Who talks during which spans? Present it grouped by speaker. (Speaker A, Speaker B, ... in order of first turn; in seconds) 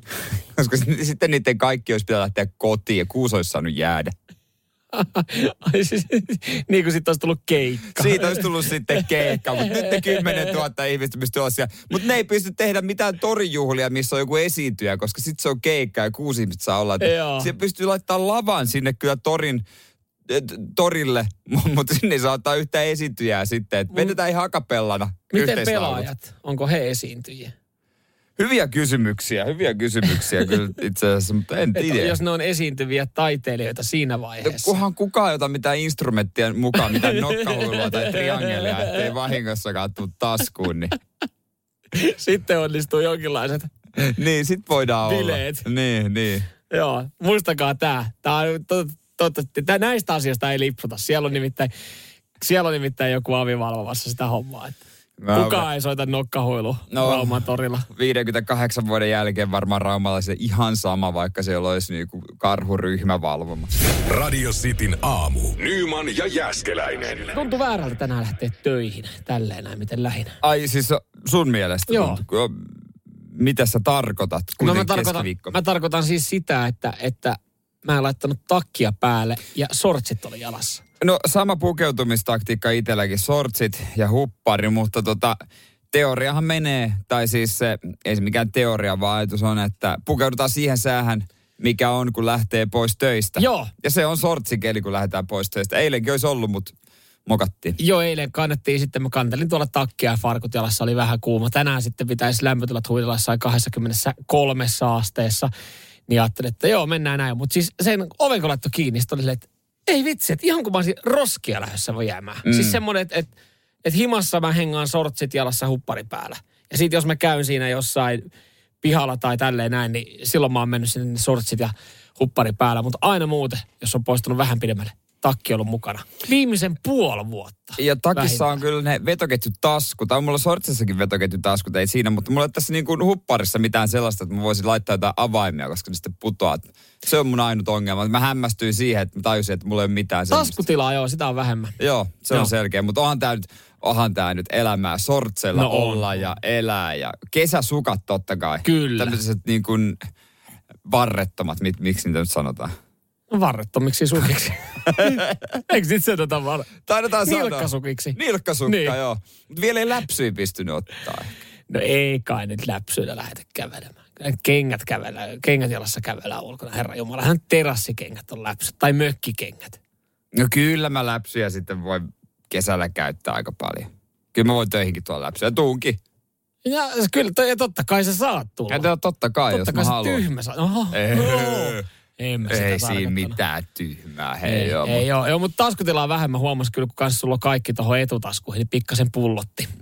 Speaker A: 0.2-4.1, 7.9-19.6, 20.3-26.1, 28.4-32.1, 34.4-41.0, 44.0-46.5, 55.2-55.7, 56.9-57.4, 57.9-63.7, 70.4-72.7, 73.3-75.5, 81.0-85.4, 85.9-96.8, 97.3-97.8, 112.5-112.8, 127.8-140.6, 141.8-150.1, 150.8-152.7, 154.9-155.4, 156.9-161.3, 170.3-176.0, 178.7-180.2, 180.9-181.8, 182.5-185.0
Speaker B: 4.9-10.5, 17.0-17.5, 25.3-27.5, 31.8-34.7, 37.0-39.1, 41.9-43.7, 45.0-45.7, 46.7-51.7, 52.4-54.8, 55.3-57.9, 67.3-70.4, 71.9-72.2, 74.6-80.8, 93.4-93.7, 97.8-105.5, 106.1-113.3, 113.8-118.3, 118.8-128.5, 140.3-141.8, 145.5-146.1, 148.6-149.2, 153.3-156.7, 157.2-158.9, 161.7-169.8, 176.7-178.9, 179.5-183.4, 184.4-189.7
Speaker C: 64.1-67.4